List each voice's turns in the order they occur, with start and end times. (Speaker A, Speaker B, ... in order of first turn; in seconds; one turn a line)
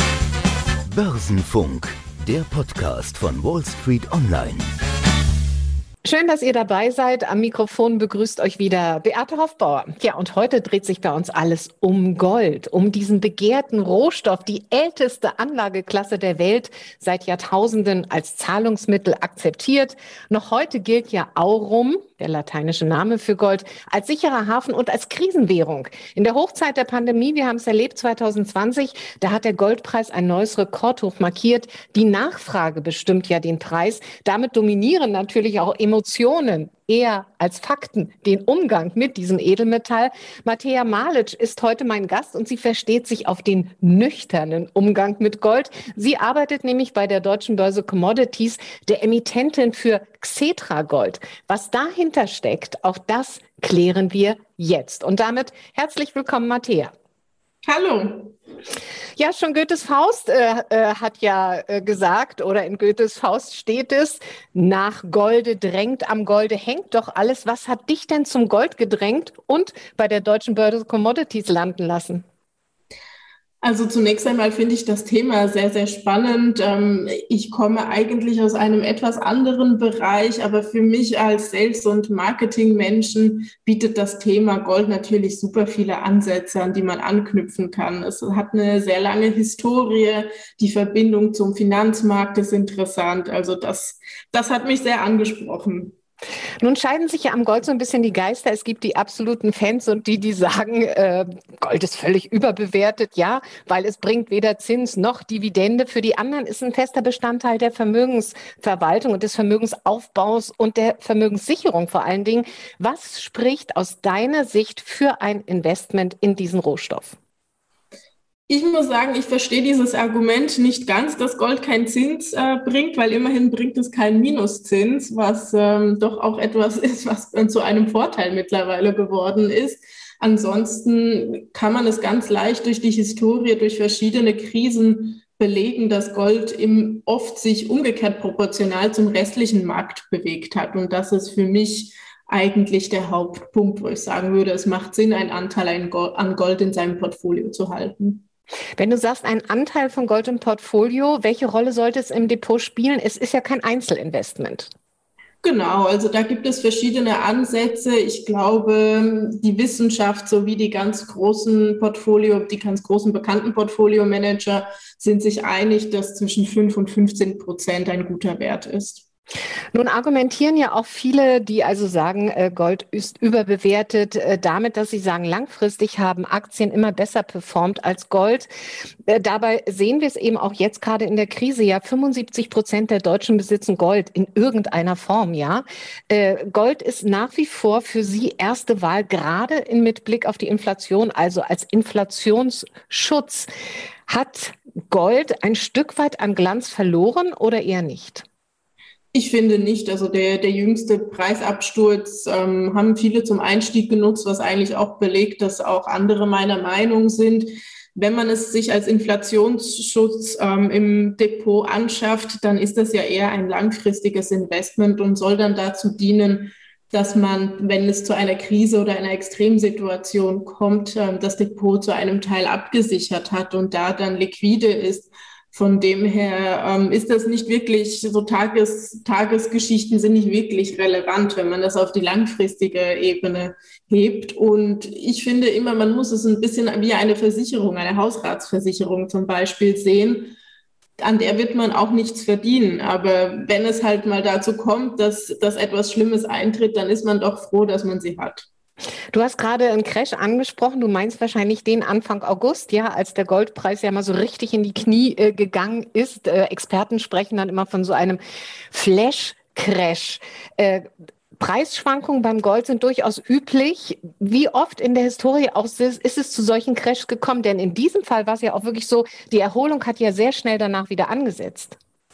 Speaker A: 0.9-4.6
Speaker B: 6.0-56.9
Speaker C: 57.6-58.3
Speaker B: 59.2-72.2
Speaker C: 73.6-95.9
Speaker B: 96.6-117.2
Speaker C: 118.5-148.2
Speaker B: 148.8-154.7
Speaker C: 155.4-169.0
Speaker B: 169.7-178.5
Speaker B: 179.0-193.5
Speaker B: 194.1-198.2
Speaker C: 199.1-240.3
Speaker C: 241.0-248.5
Speaker B: 249.1-258.2
Speaker B: 258.7-271.8